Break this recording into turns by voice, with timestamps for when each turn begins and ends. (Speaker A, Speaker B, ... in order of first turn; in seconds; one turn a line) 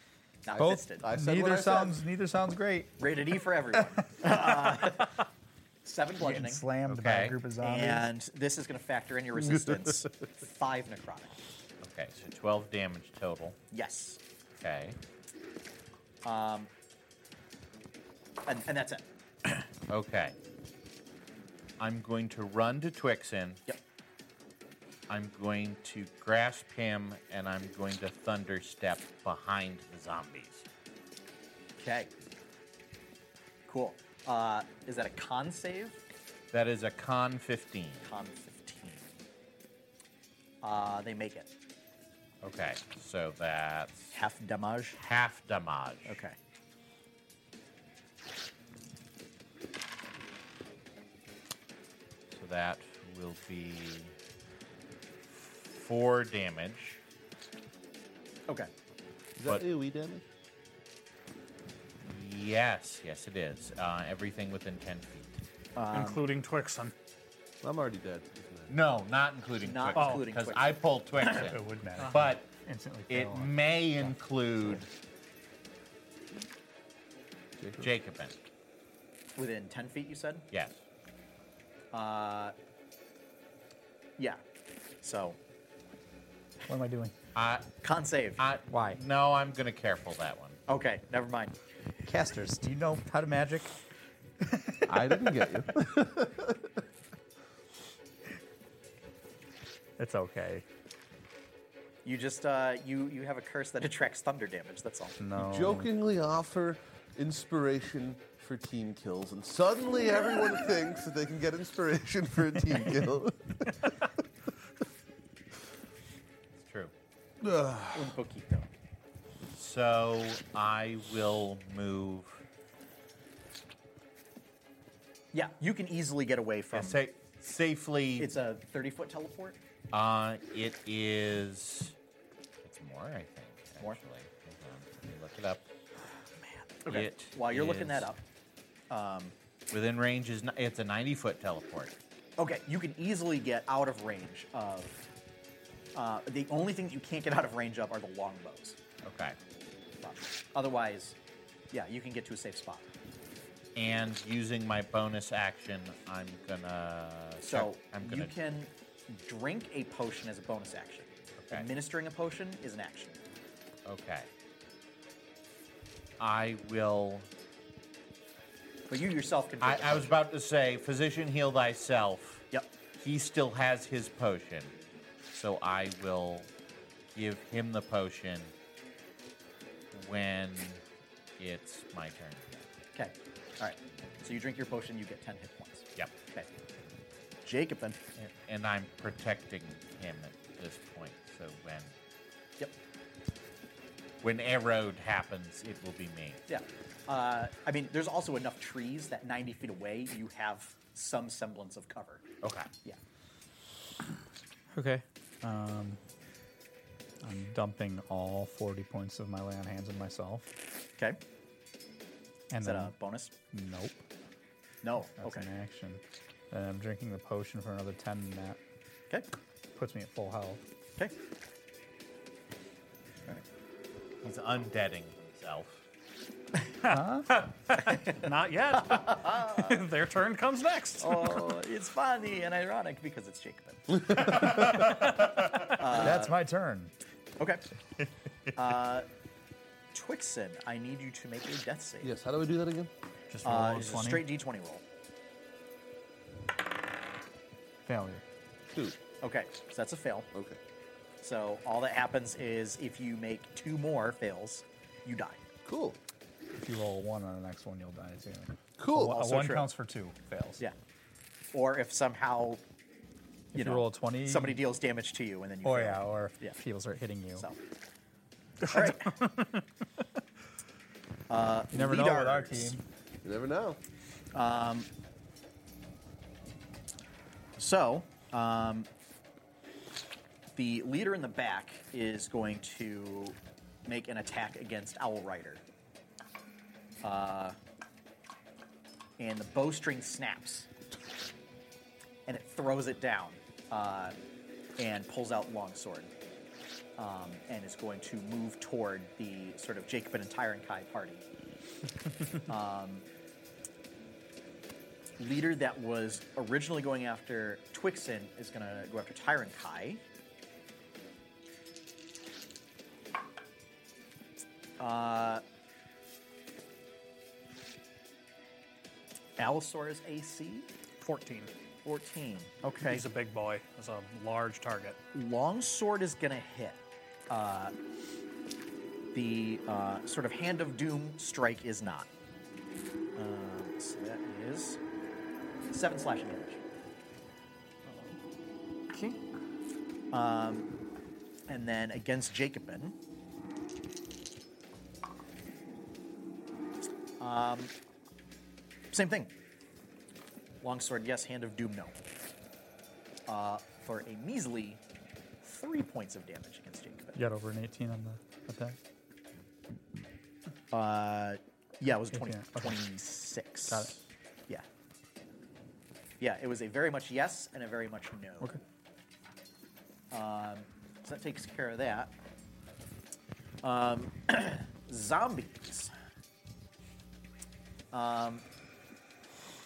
Speaker A: 0.4-1.1
Speaker B: 0.6-3.0
Speaker C: 1.0-2.0
Speaker A: 3.0-5.2
Speaker A: 5.8-6.6
Speaker B: 6.2-8.1
Speaker D: 6.9-7.4
Speaker A: 7.6-11.3
Speaker D: 11.8-13.6
Speaker A: 13.7-14.2
Speaker D: 14.6-15.0
Speaker A: 16.2-16.7
Speaker A: 18.4-19.0
Speaker D: 19.9-20.3
Speaker D: 21.8-23.6
Speaker D: 25.1-30.6
Speaker A: 31.8-32.1
Speaker A: 33.7-36.0
Speaker D: 36.5-38.1
Speaker A: 38.0-39.1
Speaker A: 40.6-41.5
Speaker D: 42.4-44.2
Speaker A: 44.1-45.0
Speaker D: 45.0-46.2
Speaker A: 46.0-46.4
Speaker D: 52.3-54.1
Speaker D: 55.3-57.0
Speaker C: 59.4-60.2
Speaker D: 62.0-65.4
Speaker A: 65.8-66.2
Speaker E: 65.9-66.9
Speaker C: 67.6-68.7
Speaker D: 68.7-72.5
Speaker A: 69.6-70.7
Speaker E: 70.0-70.2
Speaker B: 71.3-74.8
Speaker D: 73.1-74.8
Speaker C: 77.6-77.9
Speaker D: 77.8-78.3
Speaker A: 79.3-80.5
Speaker D: 80.5-80.8
Speaker A: 81.9-82.5
Speaker A: 85.0-85.4
Speaker B: 86.7-87.1
Speaker D: 87.3-87.7
Speaker A: 87.8-88.4
Speaker D: 88.4-90.6
Speaker B: 88.7-89.0
Speaker A: 90.7-91.5
Speaker B: 92.0-93.7
Speaker B: 94.4-95.5
Speaker C: 94.8-96.8
Speaker B: 100.0-100.6
Speaker A: 102.0-105.2
Speaker B: 105.2-105.9
Speaker C: 105.3-114.1
Speaker D: 116.6-116.9
Speaker C: 117.4-118.2
Speaker A: 117.9-118.7
Speaker D: 119.5-122.4
Speaker A: 125.3-127.0
Speaker D: 126.7-128.3
Speaker A: 128.2-129.6
Speaker D: 129.9-131.9
Speaker D: 132.6-135.6
Speaker A: 136.8-138.2
Speaker D: 136.9-138.1
Speaker A: 138.9-139.3
Speaker D: 139.7-141.9
Speaker A: 142.4-145.1
Speaker A: 145.9-148.8
Speaker D: 149.0-149.3
Speaker A: 150.0-151.2
Speaker A: 151.7-152.9
Speaker D: 153.8-158.3
Speaker A: 157.4-163.2
Speaker D: 161.4-161.7
Speaker D: 163.8-164.3
Speaker D: 166.2-167.3
Speaker A: 168.9-170.1
Speaker D: 169.6-172.5
Speaker D: 173.0-174.7
Speaker D: 175.3-176.5
Speaker D: 177.1-178.5
Speaker D: 179.9-180.8
Speaker D: 181.4-182.7
Speaker A: 182.9-186.5
Speaker A: 187.4-188.0
Speaker D: 188.2-191.9
Speaker D: 194.2-196.4
Speaker A: 196.5-202.2
Speaker D: 202.4-202.7
Speaker B: 204.7-206.0
Speaker B: 207.2-210.5
Speaker B: 212.5-212.9
Speaker A: 212.6-213.3
Speaker B: 213.5-214.0
Speaker A: 214.8-215.5
Speaker B: 215.2-218.6
Speaker B: 219.7-220.6
Speaker D: 224.2-225.8
Speaker E: 226.8-231.4
Speaker B: 226.8-227.3
Speaker A: 227.8-229.8
Speaker A: 231.0-234.7
Speaker C: 234.0-234.8
Speaker E: 234.9-235.3
Speaker A: 235.6-236.3
Speaker B: 235.8-236.9
Speaker A: 238.5-239.1
Speaker A: 239.9-242.1
Speaker C: 242.0-242.9
Speaker B: 243.3-244.2
Speaker A: 243.4-244.8
Speaker B: 247.8-248.2
Speaker C: 248.7-249.0
Speaker A: 249.2-250.3
Speaker C: 250.3-250.6
Speaker A: 251.2-255.4
Speaker C: 255.7-256.0
Speaker B: 256.5-260.6
Speaker C: 258.8-259.2
Speaker A: 259.1-259.7
Speaker A: 261.5-262.6
Speaker B: 263.5-264.6
Speaker A: 263.5-266.6
Speaker B: 265.6-267.5
Speaker A: 268.6-269.3
Speaker E: 268.6-269.6
Speaker A: 271.3-272.8
Speaker B: 271.7-272.8
Speaker C: 273.2-273.8
Speaker A: 274.3-274.9
Speaker A: 277.6-278.9
Speaker A: 280.6-285.6
Speaker A: 287.0-287.6
Speaker A: 289.2-290.7
Speaker A: 292.3-294.1
Speaker A: 294.8-296.1
Speaker A: 297.0-301.2
Speaker A: 302.4-303.1
Speaker A: 305.2-310.0
Speaker A: 314.8-315.4
Speaker A: 319.4-320.7
Speaker E: 321.0-321.5
Speaker A: 321.8-323.0
Speaker E: 322.8-325.0
Speaker A: 325.1-327.7
Speaker A: 329.1-332.1
Speaker A: 333.1-334.8
Speaker A: 335.7-336.6
Speaker E: 337.9-338.2
Speaker E: 338.9-339.2
Speaker A: 340.1-340.7
Speaker A: 341.5-342.9
Speaker A: 347.2-347.7
Speaker A: 348.9-349.3
Speaker A: 350.6-352.0
Speaker A: 353.3-354.8
Speaker A: 355.4-357.2
Speaker B: 357.1-358.8
Speaker A: 360.7-364.6
Speaker B: 362.1-362.8
Speaker B: 363.7-363.9
Speaker A: 366.2-368.6
Speaker A: 370.1-372.1
Speaker A: 373.6-375.9
Speaker A: 377.9-378.4